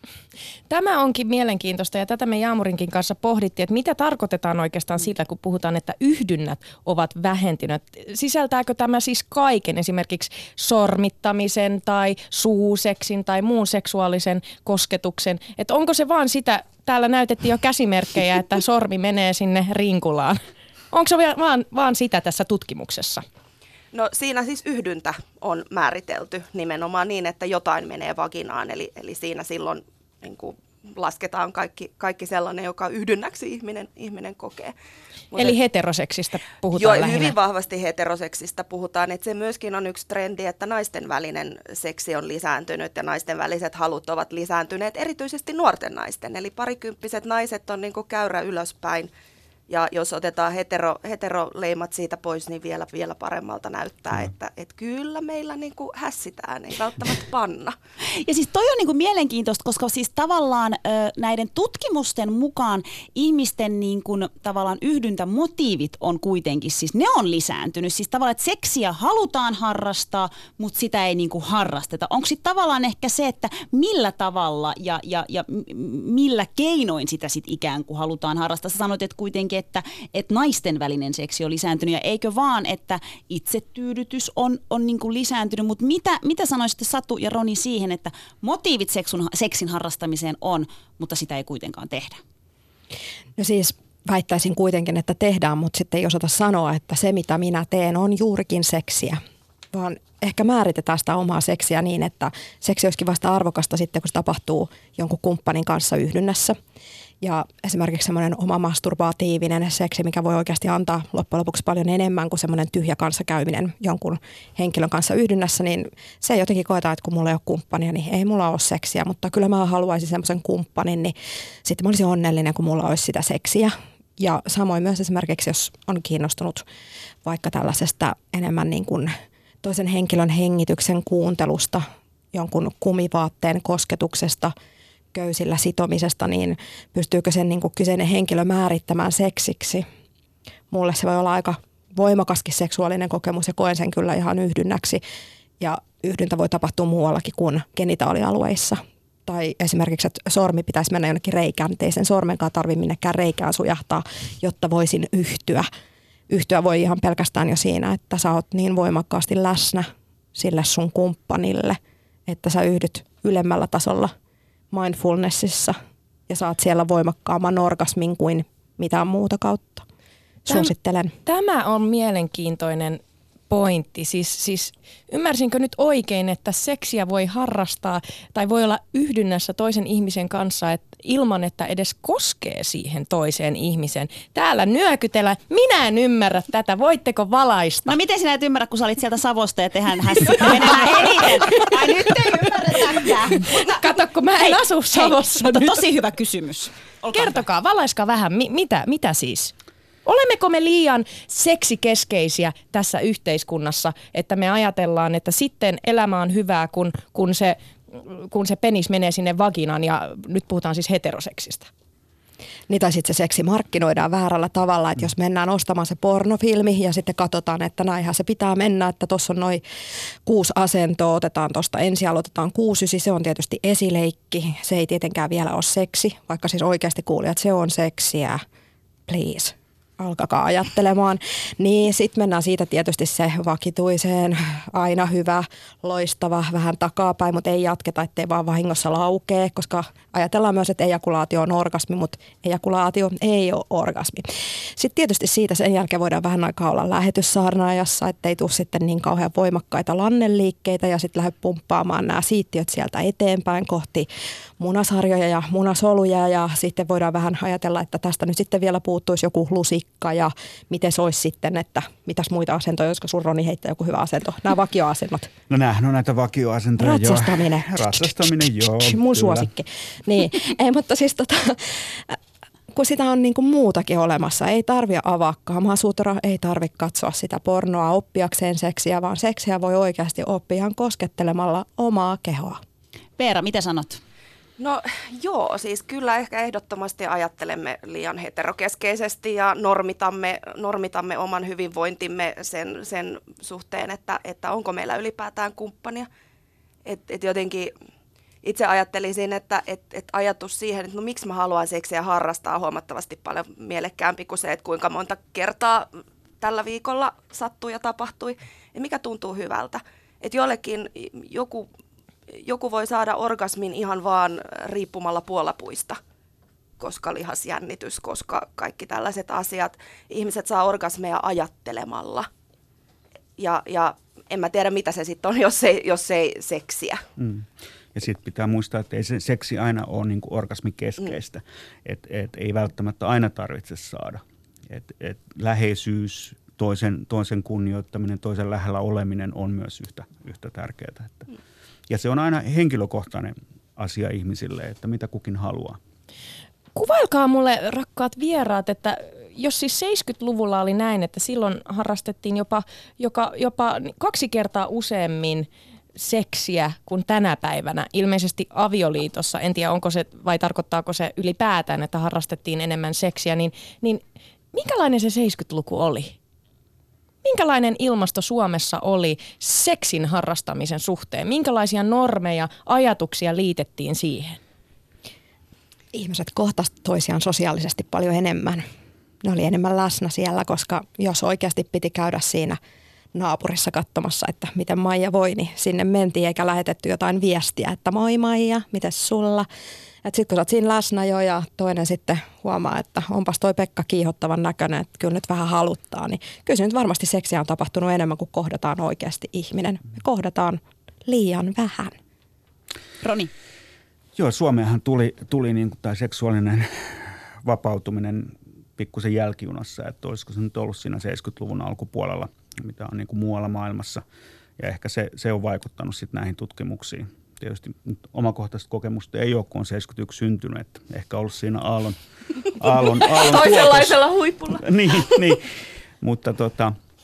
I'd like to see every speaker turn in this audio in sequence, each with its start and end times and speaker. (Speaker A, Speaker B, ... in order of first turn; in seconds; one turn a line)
Speaker A: 0.7-20.4
Speaker A: 20.9-23.2
Speaker B: 23.9-34.7
Speaker B: 35.3-35.6
Speaker A: 35.4-37.4
Speaker B: 36.7-49.1
Speaker B: 49.7-57.8
Speaker C: 58.2-92.2
Speaker D: 93.4-99.2
Speaker D: 99.7-106.6
Speaker D: 107.2-126.7
Speaker D: 127.2-129.1
Speaker D: 129.6-134.5
Speaker D: 135.1-139.9
Speaker D: 140.7-145.0
Speaker D: 145.6-155.7
Speaker D: 156.3-164.1
Speaker D: 164.7-169.8
Speaker A: 170.5-170.7
Speaker D: 170.5-171.1
Speaker A: 171.3-187.9
Speaker C: 187.9-193.9
Speaker A: 190.3-192.5
Speaker A: 193.0-195.8
Speaker C: 194.4-197.4
Speaker A: 197.1-199.5
Speaker A: 200.1-211.7
Speaker D: 212.7-219.6
Speaker D: 220.2-228.4
Speaker D: 229.1-254.1
Speaker D: 254.6-265.3
Speaker E: 265.5-269.5
Speaker D: 266.8-272.2
Speaker D: 272.7-282.6
Speaker C: 283.2-284.0
Speaker B: 284.6-296.1
Speaker B: 296.9-297.7
Speaker B: 298.4-311.7
Speaker B: 312.4-316.0
Speaker B: 316.8-322.3
Speaker B: 323.4-327.0
Speaker E: 327.2-341.2
Speaker E: 341.9-345.8
Speaker A: 346.8-364.0
Speaker A: 364.5-366.2
Speaker A: 367.2-374.4
Speaker D: 375.9-378.6
Speaker D: 379.2-382.6
Speaker D: 383.1-389.5
Speaker D: 390.0-401.9
Speaker C: 403.0-403.3
Speaker E: 404.2-414.0
Speaker E: 414.6-422.0
Speaker E: 422.6-426.8
Speaker B: 422.6-425.3